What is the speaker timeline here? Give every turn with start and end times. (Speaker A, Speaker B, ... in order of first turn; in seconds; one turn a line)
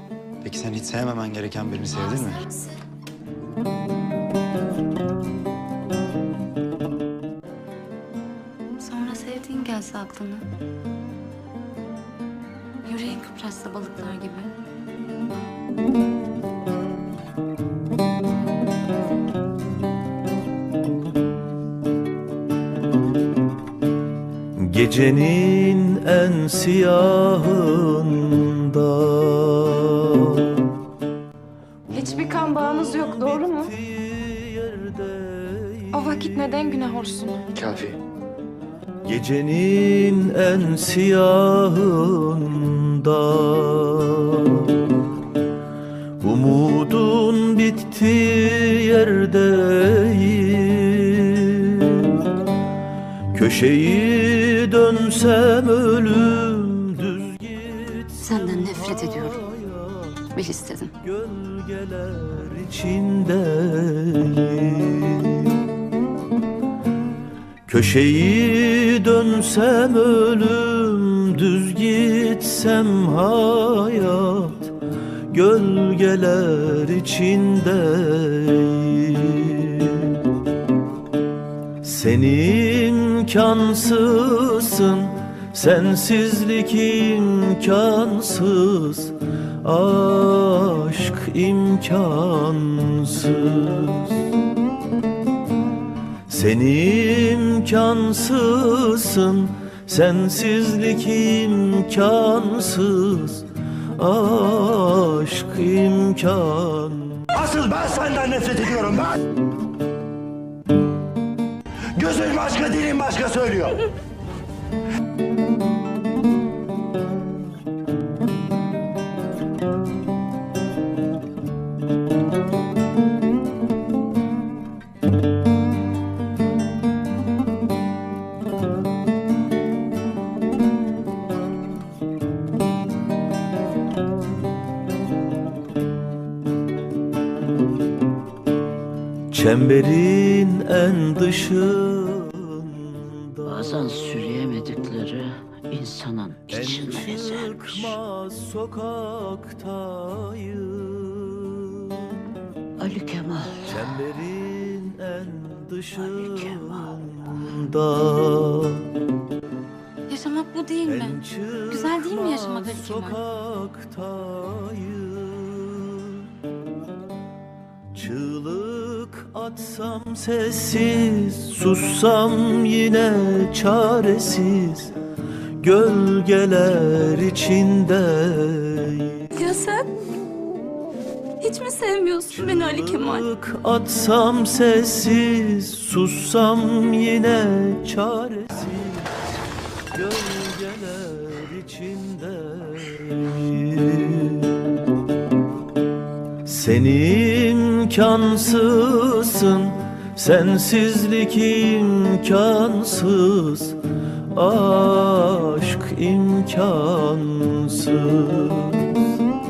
Speaker A: 0.4-2.4
Speaker B: 8.8-10.4
Speaker B: 12.8-14.5
Speaker C: 24.6-30.6
Speaker C: 31.9-36.5
Speaker D: 31.9-33.7
Speaker D: 35.9-37.4
Speaker C: 39.0-44.7
Speaker C: 46.2-52.2
Speaker C: 53.3-60.3
Speaker B: 58.2-59.3
Speaker B: 60.3-60.9
Speaker C: 61.0-65.5
Speaker C: 67.7-74.7
Speaker C: 75.3-80.2
Speaker C: 81.8-94.2
Speaker C: 96.3-107.3
Speaker E: 107.3-109.2
Speaker E: 111.9-113.8
Speaker C: 139.3-144.9
Speaker F: 143.5-147.9
Speaker C: 146.5-152.1
Speaker F: 152.8-153.8
Speaker C: 153.6-158.9
Speaker F: 156.0-156.9
Speaker B: 160.1-163.2
Speaker C: 160.8-166.3
Speaker C: 167.9-174.9
Speaker C: 175.6-179.3
Speaker B: 179.3-179.9
Speaker B: 181.4-183.2
Speaker C: 182.3-189.1
Speaker C: 189.9-194.6
Speaker C: 196.4-203.8
Speaker C: 204.3-209.0